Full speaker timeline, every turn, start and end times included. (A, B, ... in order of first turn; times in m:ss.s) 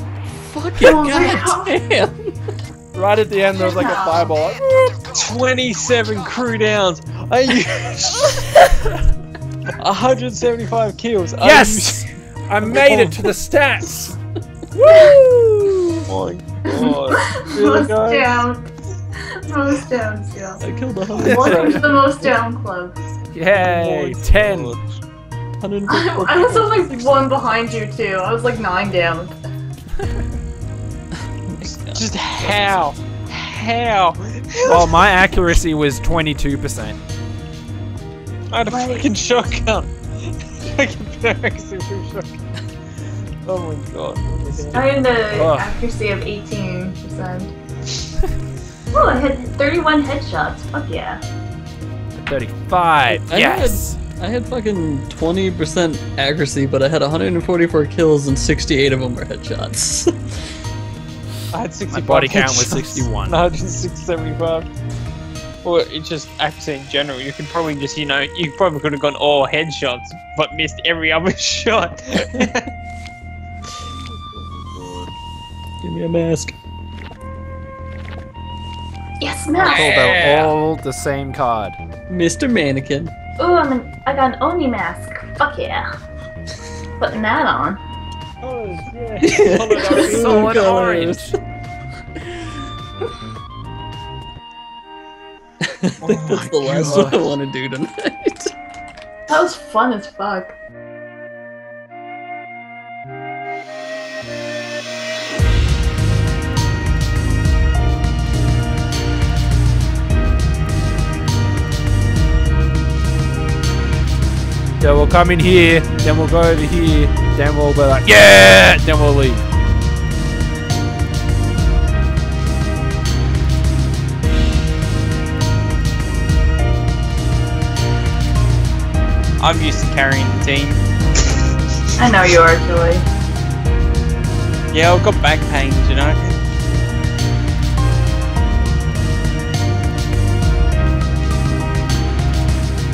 0:00.4-0:02.3 A
0:00.8-0:01.7 B
0:02.9-0:05.0 C
0:03.6-0:04.4 B
0:05.1-0:08.7 D
0:09.8-0:12.1 D
0:11.4-0:14.0 C
0:12.7-0:13.1 A
0:13.9-0:14.2 A
0:14.8-0:16.0 C
0:14.9-0:15.2 B
0:16.1-0:18.4 D
0:16.7-0:18.7 B
0:19.4-0:20.6 B
0:20.6-0:22.3 A
0:21.2-0:21.8 C
0:21.2-0:23.0 B
0:23.3-0:24.7 C
0:23.5-0:24.8 D
0:25.6-0:27.2 A
0:25.9-0:29.4 B
0:31.5-0:32.8 A
0:31.9-0:35.4 D
0:34.6-0:37.0 C
0:38.5-0:42.4 D
0:38.7-0:39.1 B
0:43.4-0:45.0 D
0:44.7-0:47.5 B
0:45.3-0:45.7 C
0:48.9-0:51.2 B
0:52.2-0:54.0 C
0:53.1-1:00.1 A
1:01.5-1:04.7 D
1:01.9-1:03.4 C
1:05.6-1:12.7 D
1:15.8-1:16.6 A
1:19.2-1:20.0 B
1:19.6-1:20.6 D
1:19.6-1:21.8 C
1:22.1-1:23.1 A
1:23.4-1:25.9 B
1:27.0-1:27.8 B
1:28.4-1:30.6 D
1:29.2-1:31.3 A
1:29.8-1:30.2 B
1:30.0-1:31.3 C
1:35.6-1:38.5 A
1:36.0-1:37.2 D
1:36.8-1:37.2 C
1:39.3-1:40.6 B
1:54.8-1:59.4 C
2:09.4-2:10.8 D
2:12.0-2:13.0 B
2:14.7-2:16.4 D